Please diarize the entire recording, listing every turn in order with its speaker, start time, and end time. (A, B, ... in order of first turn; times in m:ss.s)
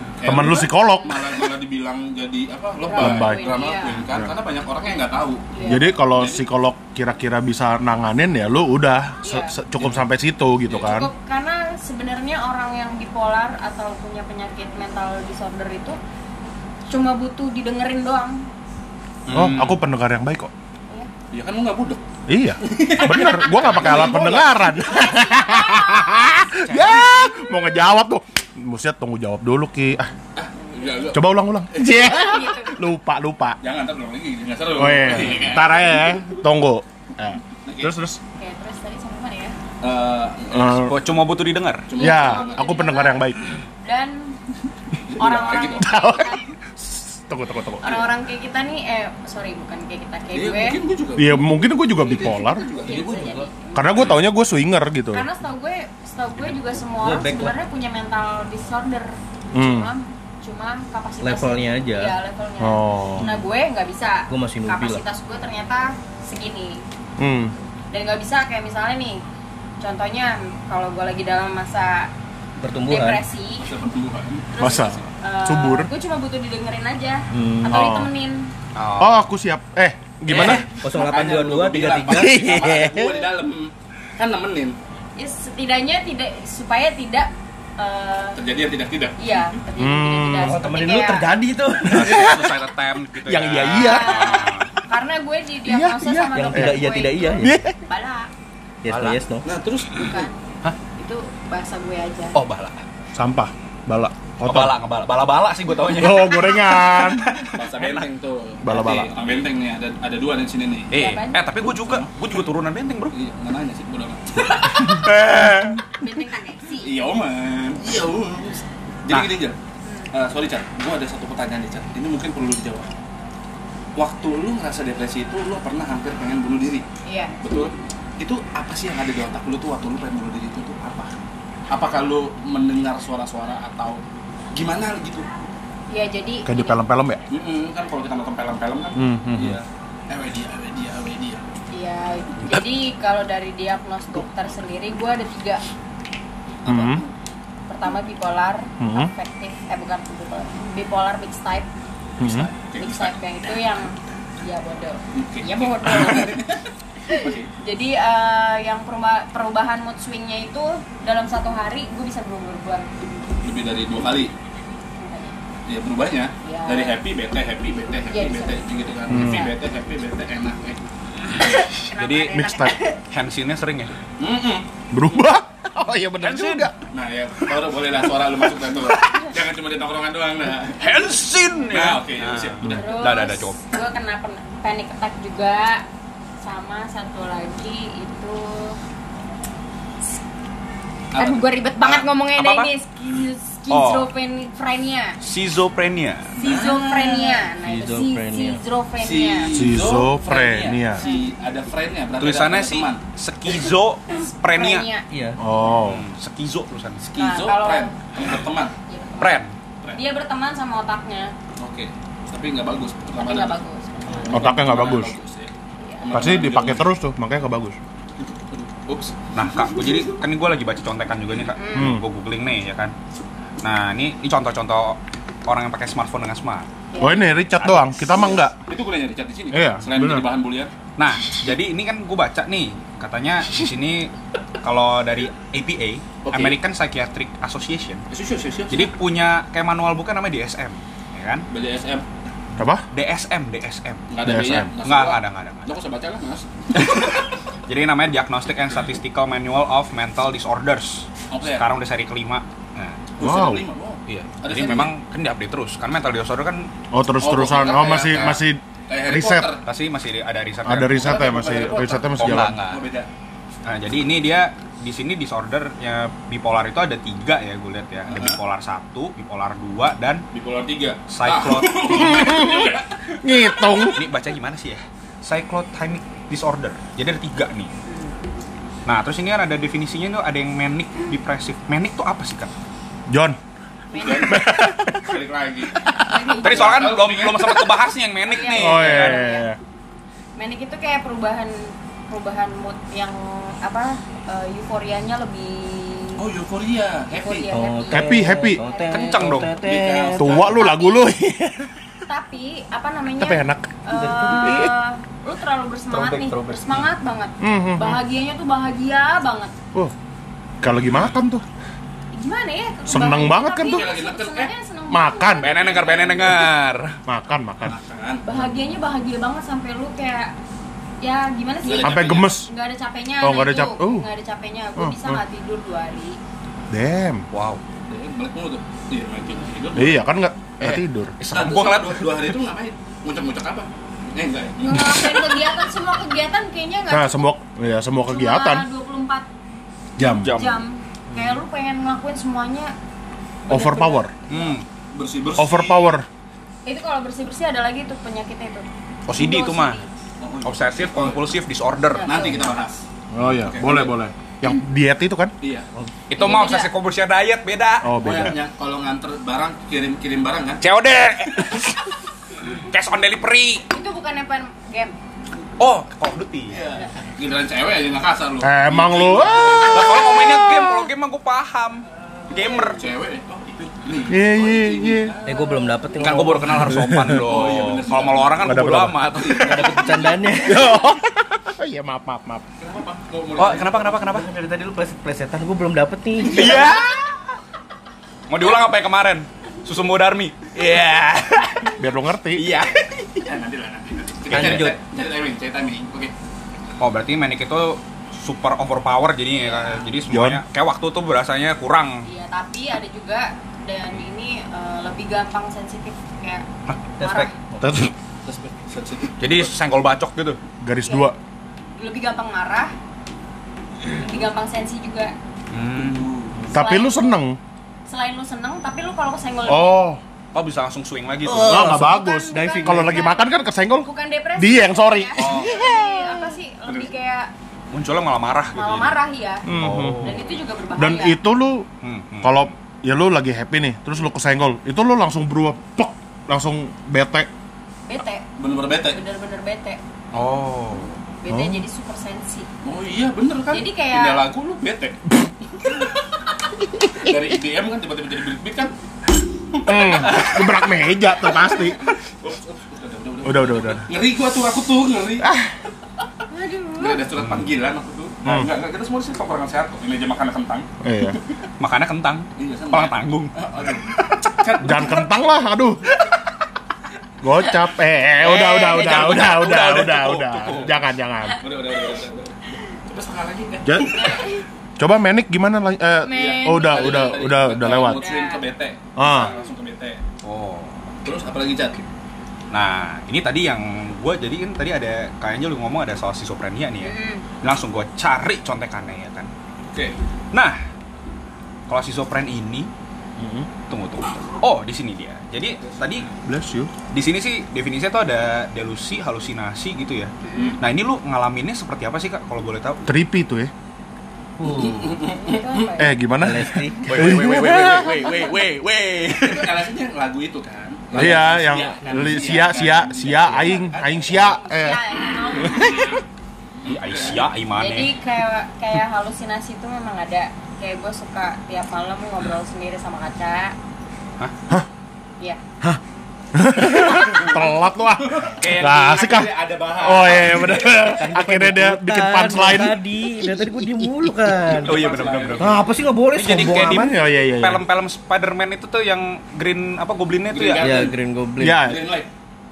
0:00.2-0:06.4 A
0:00.2-0:01.3 B
0:02.8-0:04.0 C
0:03.0-0:04.3 B
0:05.5-0:05.9 C
0:05.6-0:11.1 B
0:09.2-0:09.6 C
0:10.7-0:11.0 A
0:10.8-0:16.0 C
0:16.9-0:18.5 C
0:19.3-0:19.8 D
0:19.3-0:20.5 B
0:21.3-0:22.0 A
0:22.3-0:30.1 B
0:22.6-0:24.8 A
0:25.0-0:26.3 C
0:26.7-0:27.0 D
0:30.3-0:32.0 A
0:31.1-0:33.6 B
0:32.1-0:32.8 C
0:33.6-0:36.0 A
0:34.7-0:38.2 B
0:37.6-0:38.0 A
0:38.4-0:39.6 C
0:39.8-0:40.9 A
0:40.5-0:41.0 B
0:40.8-0:41.9 D
0:41.9-0:42.8 A
0:42.0-0:43.3 C
0:42.0-0:43.4 B
0:43.8-0:44.4 C
0:45.1-0:45.9 A
0:45.2-0:46.5 C
0:45.8-0:48.1 B
0:47.8-0:50.8 C
0:50.3-0:53.5 A
0:51.2-0:52.7 B
0:52.8-0:54.2 C
0:53.8-0:55.3 B
0:55.1-1:06.8 C
0:57.0-0:57.6 E
0:59.5-0:59.9 B
1:01.2-1:02.2 E
1:02.6-1:03.3 B
1:04.3-1:05.0 E
1:07.2-1:07.5 B
1:07.9-1:09.2 C
1:09.8-1:12.1 C
1:12.6-1:13.2 E
1:12.9-1:13.7 C
1:13.6-1:15.1 A
1:14.6-1:15.9 B
1:15.2-1:18.5 C
1:17.3-1:18.1 B
1:18.8-1:19.2 D
1:19.0-1:20.7 B
1:20.3-1:20.7 D
1:20.3-1:24.8 A
1:20.7-1:23.2 E
1:25.2-1:28.4 C
1:28.4-1:29.6 A
1:29.2-1:31.3 C
1:29.8-1:30.6 B
1:30.4-1:32.6 E
1:31.8-1:34.7 D
1:32.0-1:32.5 B
1:33.3-1:34.4 B
1:33.7-1:38.3 C
1:35.7-1:36.8 B
1:36.3-1:37.7 E
1:37.4-1:37.8 B
1:38.8-1:39.5 E
1:38.9-1:39.2 D
1:39.4-1:40.3 A
1:39.9-1:40.4 C
1:41.0-1:42.4 C
1:42.4-1:42.8 D
1:43.2-1:44.8 B
1:44.4-1:48.0 D
1:45.9-1:47.3 B
1:47.5-1:50.9 A
1:48.6-1:49.1 B
1:50.9-1:53.2 D
1:50.9-1:51.4 C
1:51.6-1:52.1 A
1:53.1-1:55.1 A
1:54.9-1:55.8 D
1:56.0-1:57.0 C
1:56.8-1:59.6 A
1:59.1-1:59.4 D
1:59.8-2:00.1 C
2:00.1-2:02.9 A
2:04.0-2:06.8 A
2:07.0-2:07.4 C
2:07.4-2:14.0 A
2:14.5-2:15.3 A
2:15.9-2:16.8 C
2:16.5-2:17.2 B
2:17.3-2:21.4 A
2:19.0-2:19.6 B
2:21.7-2:25.6 C
2:26.6-2:27.1 A
2:26.7-2:27.0 B
2:27.7-2:31.7 C
2:28.8-2:29.1 B
2:32.2-2:32.5 B
2:32.3-2:33.2 A
2:32.8-2:42.9 C
2:35.1-2:36.6 A
2:37.1-2:37.5 A
2:43.4-2:44.3 A
2:45.0-2:45.4 C
2:45.7-2:50.8 A
2:46.4-2:47.0 C
2:48.1-2:49.6 C
2:49.1-2:49.4 B
2:51.6-2:53.0 C
2:52.0-2:52.5 D
2:52.3-2:52.8 B
2:53.1-2:54.0 D
2:54.2-2:55.3 A
2:54.9-2:56.8 B
2:56.2-2:56.7 D
2:56.9-3:01.0 A
3:00.8-3:03.6 D
3:01.7-3:02.9 A
3:02.7-3:05.8 C
3:06.4-3:08.8 C
3:11.1-3:11.4 A
3:11.2-3:15.2 C
3:11.9-3:12.7 D
3:13.7-3:14.1 D
3:15.2-3:16.7 D
3:16.4-3:19.6 C
3:16.4-3:16.8 A
3:17.6-3:18.6 E
3:19.0-3:23.0 A
3:19.5-3:21.0 B
3:21.0-3:21.3 C
3:22.2-3:24.9 D
3:24.3-3:25.1 C
3:25.1-3:25.4 E
3:25.4-3:26.0 B
3:25.8-3:27.2 D
3:27.2-3:28.7 A
3:27.2-3:28.0 C
3:28.9-3:31.3 C
3:29.2-3:29.5 D
3:31.6-3:33.6 A
3:33.2-3:34.5 C
3:34.1-3:35.5 A
3:34.3-3:35.2 B
3:35.8-3:36.2 C
3:36.0-3:36.9 A
3:36.1-3:37.8 B
3:38.2-3:39.9 A
3:39.3-3:42.9 D
3:41.6-3:42.0 C
3:41.8-3:42.0 B
3:43.6-3:46.7 D
3:46.9-3:47.3 C
3:47.0-3:48.5 B
3:47.6-3:48.1 D
3:48.3-3:50.7 A
3:49.5-3:50.3 B
3:51.0-3:58.0 D
3:56.2-3:56.6 A
3:58.1-3:58.9 A
3:58.7-4:01.5 D
4:01.5-4:02.0 A
4:02.6-4:02.8 B
4:02.9-4:04.1 D
4:04.1-4:06.5 A
4:04.2-4:04.7 B
4:04.8-4:05.8 D
4:06.7-4:13.0 D
4:11.3-4:11.7 A
4:13.2-4:14.9 A
4:13.2-4:13.6 B
4:14.1-4:16.7 D
4:16.9-4:19.5 B
4:17.2-4:18.4 A
4:18.0-4:18.4 D
4:18.9-4:19.6 A
4:19.6-4:22.8 D
4:20.6-4:22.6 B
4:20.9-4:23.1 A
4:23.6-4:30.2 D
4:28.1-4:28.4 A
4:30.3-4:33.2 A
4:31.1-4:32.6 D
4:32.0-4:34.0 B
4:33.9-4:37.7 D
4:37.8-4:38.2 C
4:38.9-4:42.5 D
4:43.1-4:43.4 B
4:43.9-4:44.4 C
4:43.9-4:47.7 A
4:44.2-4:45.2 B
4:45.9-4:47.0 C
4:46.4-4:49.3 D
4:48.3-4:49.5 C
4:48.5-4:49.6 B
4:50.4-4:56.2 C
4:56.2-4:57.5 A
4:57.1-4:59.2 C
4:57.5-5:00.4 E
4:57.9-4:58.6 B
4:58.9-4:59.5 D
4:59.5-5:00.7 A
5:00.2-5:01.7 B
5:00.4-5:01.1 C
5:02.1-5:09.5 C
5:03.2-5:04.7 B
5:03.9-5:04.6 E
5:05.9-5:06.7 E
5:07.4-5:08.0 B
5:10.6-5:11.4 B
5:12.1-5:15.8 C
5:12.9-5:13.9 B
5:13.6-5:14.5 A
5:14.9-5:15.5 B
5:15.4-5:17.0 D
5:15.4-5:16.6 A
5:17.1-5:17.8 B
5:17.6-5:18.3 A
5:18.3-5:20.3 C
5:21.0-5:26.2 C
5:21.6-5:22.4 A
5:21.8-5:22.5 B
5:23.2-5:24.1 B
5:24.8-5:25.2 B
5:26.7-5:27.2 B
5:27.3-5:27.6 D
5:27.9-5:30.0 A
5:29.8-5:31.1 B
5:30.6-5:32.4 D
5:31.3-5:35.4 A
5:34.6-5:37.2 C
5:36.9-5:38.7 B
5:38.1-5:39.3 C
5:40.0-5:40.3 B
5:40.0-5:40.6 D
5:40.2-5:42.7 C
5:43.4-5:44.5 C
5:43.5-5:44.1 B
5:44.3-5:44.7 D
5:44.9-5:45.9 A
5:45.4-5:46.1 B
5:46.6-5:49.9 C
5:49.1-5:49.8 D
5:50.2-5:51.2 A
5:50.4-5:52.3 D
5:51.9-5:52.5 C
5:52.0-5:54.0 A
5:53.1-5:55.3 B
5:55.4-5:55.7 A
5:56.1-5:58.3 D
5:56.2-5:56.7 C
5:57.8-5:58.4 B
5:58.0-6:00.7 A
6:00.6-6:01.8 D
6:02.7-6:03.7 D
6:03.7-6:05.0 C
6:05.6-6:06.6 D
6:06.5-6:10.2 A
6:08.4-6:10.7 B
6:09.7-6:12.8 D
6:12.7-6:16.4 A
6:14.1-6:15.2 B
6:15.3-6:16.7 E
6:16.0-6:20.0 D
6:16.7-6:17.2 B
6:17.1-6:20.5 A
6:18.4-6:19.0 B
6:19.4-6:20.7 E
6:20.4-6:22.4 B
6:22.6-6:24.1 A
6:23.4-6:24.3 D
6:24.0-6:26.8 E
6:26.2-6:26.8 A
6:26.2-6:27.0 D
6:28.3-6:31.8 D
6:31.8-6:32.4 B
6:32.3-6:33.3 D
6:33.2-6:36.1 A
6:34.3-6:34.8 D
6:34.3-6:34.7 E
6:36.8-6:42.1 D
6:39.4-6:39.9 C
6:40.1-6:40.4 B
6:42.0-6:46.4 C
6:47.0-6:47.9 E
6:47.0-6:47.3 C
6:47.6-6:47.9 B
6:48.2-6:49.5 A
6:49.2-6:50.4 D
6:50.6-6:51.2 B
6:50.8-6:51.1 C
6:51.8-6:52.7 C
6:53.9-6:55.2 C
6:55.5-6:56.1 D
6:55.8-6:56.4 A
6:56.4-6:57.4 B
6:56.5-6:57.2 C
6:57.9-6:59.8 C
6:59.5-7:00.0 B
7:00.3-7:01.8 D
7:01.2-7:03.0 E
7:01.4-7:05.9 B
7:01.7-7:07.3 C
7:05.2-7:05.7 D
7:07.7-7:10.4 D
7:08.6-7:09.5 C
7:09.5-7:10.1 B
7:10.0-7:11.2 C
7:10.8-7:11.7 B
7:11.8-7:12.5 D
7:12.2-7:17.3 B
7:17.9-7:19.8 C
7:18.4-7:19.0 A
7:20.1-7:21.0 D
7:21.2-7:22.5 C
7:21.3-7:21.6 B
7:22.6-7:25.0 A
7:23.5-7:24.3 C
7:25.6-7:25.9 A
7:26.8-7:28.7 A
7:29.5-7:30.4 A
7:29.6-7:31.8 B
7:31.4-7:35.3 A
7:33.2-7:33.9 B
7:35.2-7:35.5 B
7:36.3-7:37.0 C
7:36.8-7:40.7 A
7:38.2-7:38.5 B
7:40.8-7:41.2 B
7:41.6-7:43.3 D
7:42.4-7:45.1 A
7:43.9-7:44.4 D
7:44.6-7:45.9 B
7:47.2-7:51.4 B
7:48.2-7:50.8 D
7:51.3-7:54.2 A
7:53.6-7:54.0 B
7:53.9-7:54.4 C
7:54.8-7:58.1 B
7:56.0-7:57.2 C
7:56.1-8:00.0 A
7:57.8-7:58.4 C
7:59.0-7:59.3 B
8:00.2-8:00.9 D
8:01.0-8:01.8 A
8:02.5-8:09.3 D
8:06.8-8:07.3 C
8:09.7-8:10.0 A
8:10.3-8:10.6 D
8:11.7-8:12.7 D
8:13.2-8:13.5 B
8:13.7-8:16.1 D
8:15.6-8:15.9 A
8:16.2-8:16.7 B
8:16.9-8:22.8 D
8:20.2-8:20.6 C
8:22.9-8:23.5 B
8:24.4-8:25.0 E
8:24.4-8:25.8 A
8:25.0-8:26.0 C
8:25.8-8:28.2 B
8:26.2-8:27.2 E
8:26.8-8:29.6 D
8:29.2-8:34.4 A
8:30.9-8:34.8 B
8:34.4-8:35.9 C
8:35.4-8:35.8 B
8:36.6-8:37.3 A
8:36.7-8:37.9 D
8:37.5-8:43.6 C
8:46.3-8:54.4 B
8:48.0-8:50.9 A
8:48.3-8:49.3 D
8:50.9-8:54.8 E
8:54.5-9:00.9 D
8:54.5-8:55.7 A
8:55.4-8:57.0 E
8:56.3-8:57.6 B
9:00.3-9:01.0 A
9:00.6-9:01.6 E
9:01.4-9:01.8 B
9:01.6-9:02.1 A